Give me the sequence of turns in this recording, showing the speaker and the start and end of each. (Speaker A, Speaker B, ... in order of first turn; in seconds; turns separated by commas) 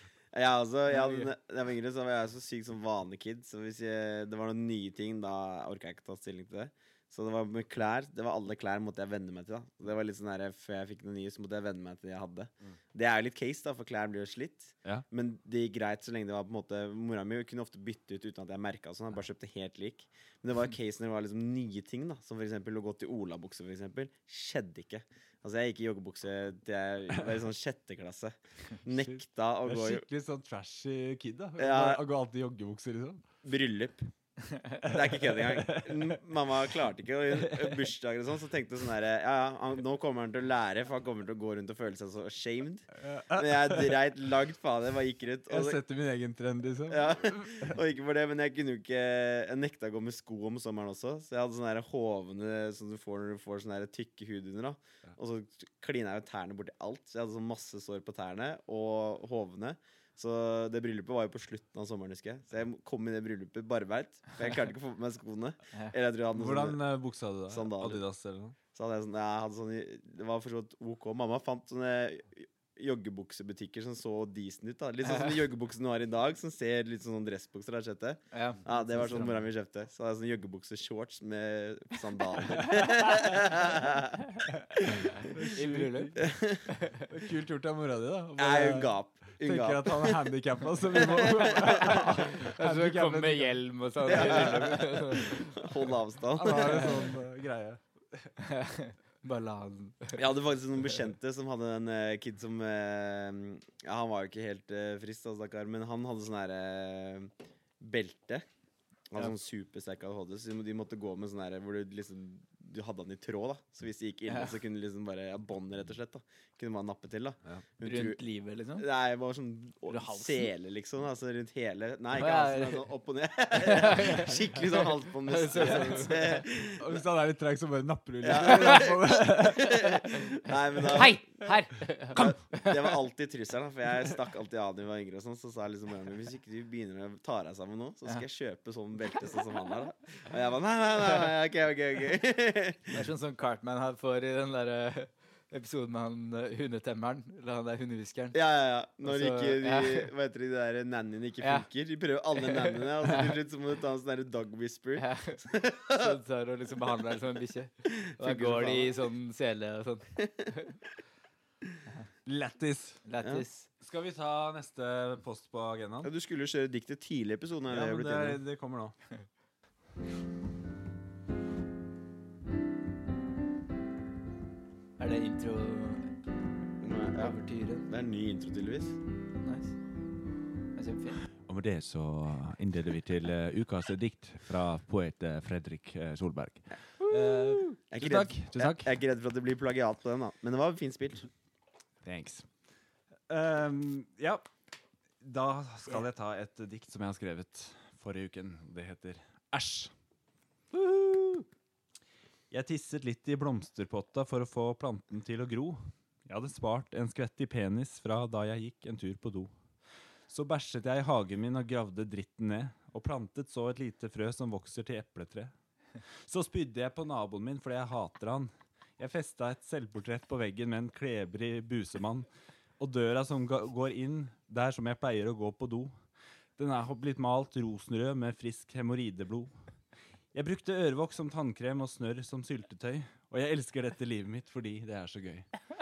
Speaker A: 0.3-30.1, Speaker B: 28.9-33.2, Speaker A: 31.6-32.0, Speaker A: 33.4-34.0, Speaker B: 34.8-36.2, Speaker A: 34.8-45.8, Speaker B: 37.4-37.8, Speaker B: 43.0-44.0, Speaker B: 45.5-47.8, Speaker A: 46.9-66.8, Speaker B: 66.3-68.5, Speaker A: 67.5-68.0, Speaker A: 68.7-85.2, Speaker C: 75.0-75.3, Speaker C: 78.3-79.4, Speaker B: 84.5-86.2, Speaker C: 85.5-86.1, Speaker A: 86.2-86.7, Speaker C: 86.7-87.0, Speaker B: 87.0-94.7, Speaker A: 88.4-90.2, Speaker A: 90.9-92.0, Speaker C: 91.8-95.5, Speaker A: 94.0-97.1, Speaker B: 96.3-98.3, Speaker C: 96.5-97.0, Speaker C: 98.4-100.2, Speaker A: 100.2-108.4, Speaker A: 109.1-118.2, Speaker C: 114.3-114.5, Speaker C: 117.8-118.8, Speaker A: 118.8-127.0, Speaker C: 119.9-120.5, Speaker C: 122.1-122.8, Speaker C: 123.5-126.4, Speaker B: 125.6-126.1, Speaker B: 126.7-129.9, Speaker A: 128.2-131.3, Speaker C: 128.3-128.9, Speaker C: 129.6-130.3, Speaker C: 130.9-132.9, Speaker A: 132.1-143.0, Speaker C: 142.9-148.3, Speaker A: 148.3-156.2, Speaker C: 149.0-150.1, Speaker C: 151.4-151.7, Speaker C: 152.3-153.3, Speaker C: 155.0-160.7, Speaker A: 157.8-159.0, Speaker B: 162.2-163.0, Speaker C: 163.0-163.7, Speaker B: 163.8-166.1, Speaker A: 166.0-168.4, Speaker B: 167.7-168.9, Speaker C: 175.0-176.1, Speaker A: 176.8-177.3, Speaker C: 177.1-177.9, Speaker A: 177.9-179.0, Speaker C: 179.4-179.8, Speaker C: 180.7-181.2, Speaker B: 181.5-188.9, Speaker C: 187.0-187.7, Speaker A: 187.9-191.3, Speaker B: 192.0-192.4, Speaker B: 193.3-194.4, Speaker B: 195.2-199.9, Speaker B: 202.5-209.5, Speaker B: 210.3-215.5, Speaker B: 216.2-222.3, Speaker B: 222.8-225.9, Speaker B: 226.6-229.5, Speaker B: 230.3-235.5